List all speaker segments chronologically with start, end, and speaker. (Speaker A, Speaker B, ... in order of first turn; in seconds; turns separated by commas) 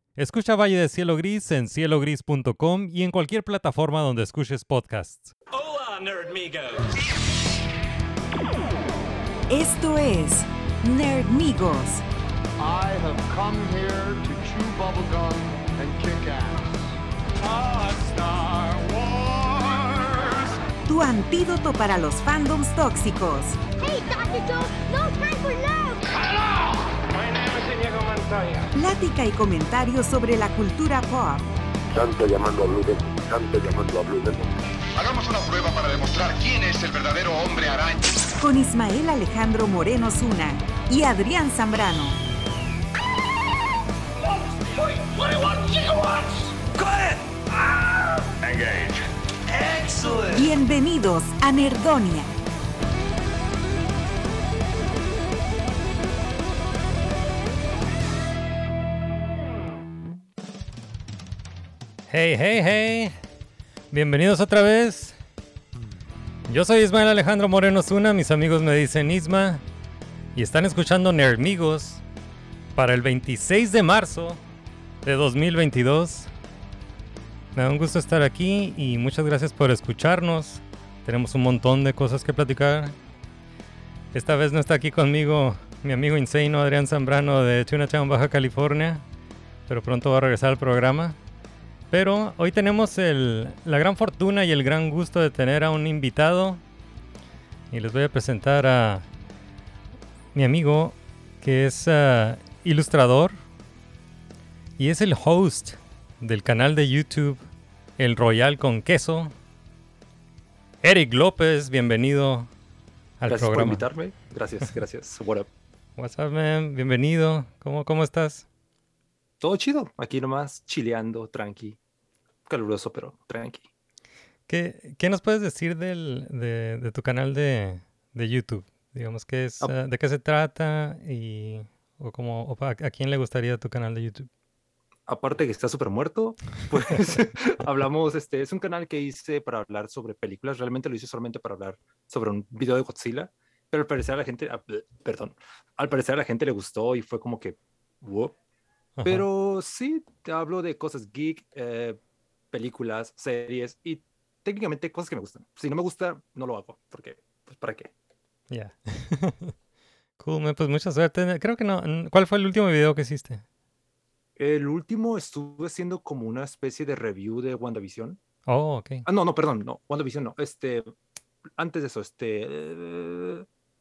Speaker A: 0.2-5.3, Speaker B: 5.5-6.9, Speaker C: 9.5-12.0, Speaker D: 12.6-16.6, Speaker D: 17.4-20.5, Speaker C: 20.9-23.6, Speaker E: 23.8-26.1, Speaker B: 26.2-28.7, Speaker C: 28.7-31.4, Speaker F: 31.9-34.5, Speaker G: 35.0-38.3, Speaker C: 38.4-42.2, Speaker B: 45.2-46.4, Speaker G: 46.7-47.3, Speaker G: 48.4-49.0, Speaker G: 49.5-50.5, Speaker C: 50.3-52.3, Speaker A: 62.1-63.2, Speaker A: 63.9-65.2, Speaker A: 66.5-69.6, Speaker A: 70.3-72.0, Speaker A: 72.7-74.4, Speaker A: 75.0-76.3, Speaker A: 77.5-82.9, Speaker A: 84.1-89.0, Speaker A: 89.7-91.2, Speaker A: 91.9-96.6, Speaker A: 97.7-99.1, Speaker A: 100.3-103.4, Speaker A: 104.8-107.4, Speaker A: 108.0-109.3, Speaker A: 110.8-112.5, Speaker A: 113.2-113.8, Speaker H: 113.3-115.5, Speaker A: 116.0-118.5, Speaker H: 119.4-121.8, Speaker H: 122.5-123.7, Speaker A: 124.5-134.3, Speaker H: 135.1-148.3, Speaker A: 136.7-137.2, Speaker A: 149.0-149.3, Speaker H: 149.0-152.0, Speaker H: 152.5-157.9, Speaker A: 158.5-159.5, Speaker A: 160.2-163.4, Speaker H: 164.4-168.2, Speaker A: 168.4-169.0, Speaker H: 169.0-170.9, Speaker H: 171.6-173.4